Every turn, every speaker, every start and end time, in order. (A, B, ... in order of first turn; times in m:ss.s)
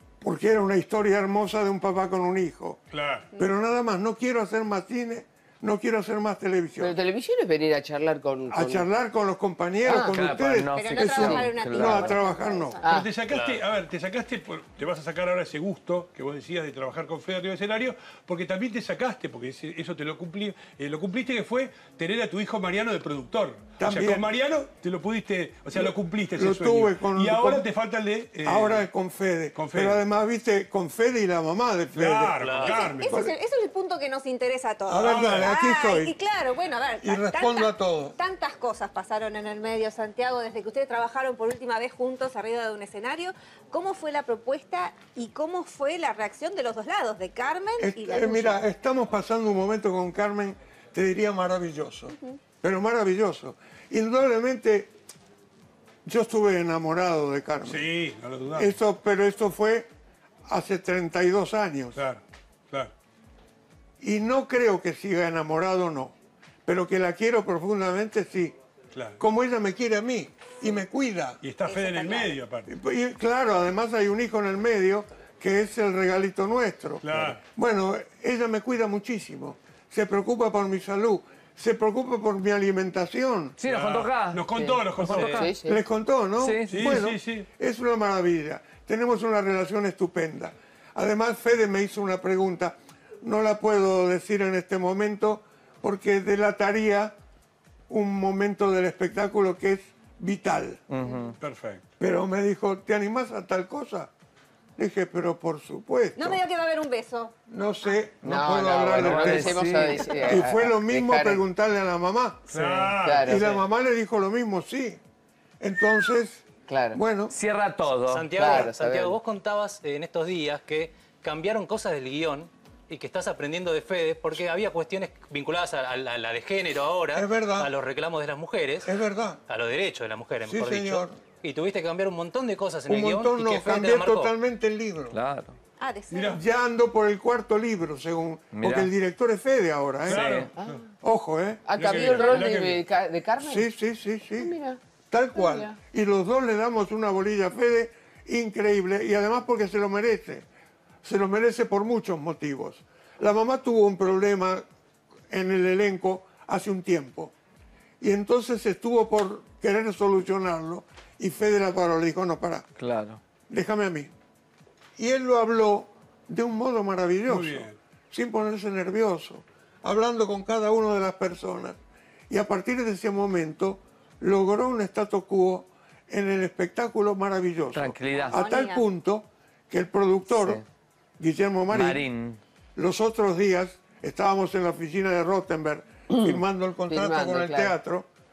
0:00.2-0:02.8 A
0:02.9-0:03.3 B
0:03.4-0:07.0 A
0:06.8-0:08.9 C
0:08.5-0:12.8 A
0:09.8-0:10.2 C
0:09.9-0:12.2 D
0:10.7-0:13.0 E
0:11.1-0:11.8 C
0:12.8-0:13.1 C
0:12.9-0:28.9 B
0:13.3-0:13.6 F
0:23.8-0:24.3 A
0:25.8-0:27.6 A
0:28.4-0:32.5 A
0:29.6-0:30.0 B
0:31.9-0:33.2 B
0:32.4-0:32.9 F
0:32.6-0:48.6 E
0:33.1-0:33.3 A
0:34.9-0:36.2 A
0:35.0-0:35.5 B
0:37.0-0:38.2 A
0:47.8-0:54.9 A
0:56.0-0:57.9 A
0:57.6-0:58.7 B
0:58.6-0:59.9 A
1:00.5-1:02.0 A
1:02.0-1:02.9 B
1:04.0-1:06.2 A
1:06.7-1:08.6 A
1:08.9-1:09.2 B
1:09.2-1:11.4 A
1:11.4-1:12.7 B
1:11.7-1:12.4 E
1:12.7-1:23.6 A
1:17.0-1:17.4 B
1:23.6-1:25.5 D
1:23.6-1:25.5 B
1:24.5-1:25.8 C
1:25.6-1:37.1 A
1:26.4-1:27.0 D
1:26.7-1:27.5 B
1:37.9-1:40.8 A
1:40.9-1:41.4 D
1:41.4-1:41.8 B
1:42.0-1:44.1 A
1:44.8-1:46.4 A
1:46.2-1:47.3 E
1:47.5-1:52.4 A
1:48.2-1:51.4 C
1:48.3-1:50.2 D
1:52.5-1:53.4 B
1:52.6-1:53.6 C
1:53.2-1:55.0 A
1:55.6-1:57.3 A
1:56.7-1:57.0 C
1:57.3-1:58.5 D
1:58.1-2:08.9 F
1:58.4-1:59.2 C
2:07.1-2:07.7 A
2:08.8-2:09.4 A
2:09.5-2:14.3 F
2:10.4-2:11.2 A
2:12.9-2:15.2 A
2:15.1-2:15.6 D
2:15.8-2:16.4 E
2:16.1-2:16.4 B
2:16.3-2:20.3 A
2:18.6-2:18.9 D
2:20.1-2:20.8 B
2:20.1-2:20.5 D
2:20.6-2:20.8 C
2:21.0-2:21.7 A
2:21.7-2:23.7 C
2:21.8-2:22.8 B
2:21.9-2:22.4 E
2:23.4-2:24.5 A
2:24.4-2:24.8 C
2:25.1-2:30.5 A
2:25.4-2:25.8 C
2:31.0-2:34.6 A
2:35.3-2:37.3 A
2:38.0-2:42.7 A
2:42.8-2:43.2 D
2:43.5-2:44.1 A
2:45.0-2:51.8 A
2:47.3-2:47.8 B
2:52.3-3:00.6 A
2:57.7-2:58.4 D
2:58.2-2:58.8 E
3:00.3-3:00.6 D
3:01.2-3:02.0 A
3:01.7-3:02.4 D
3:02.8-3:08.1 A
3:06.1-3:07.8 C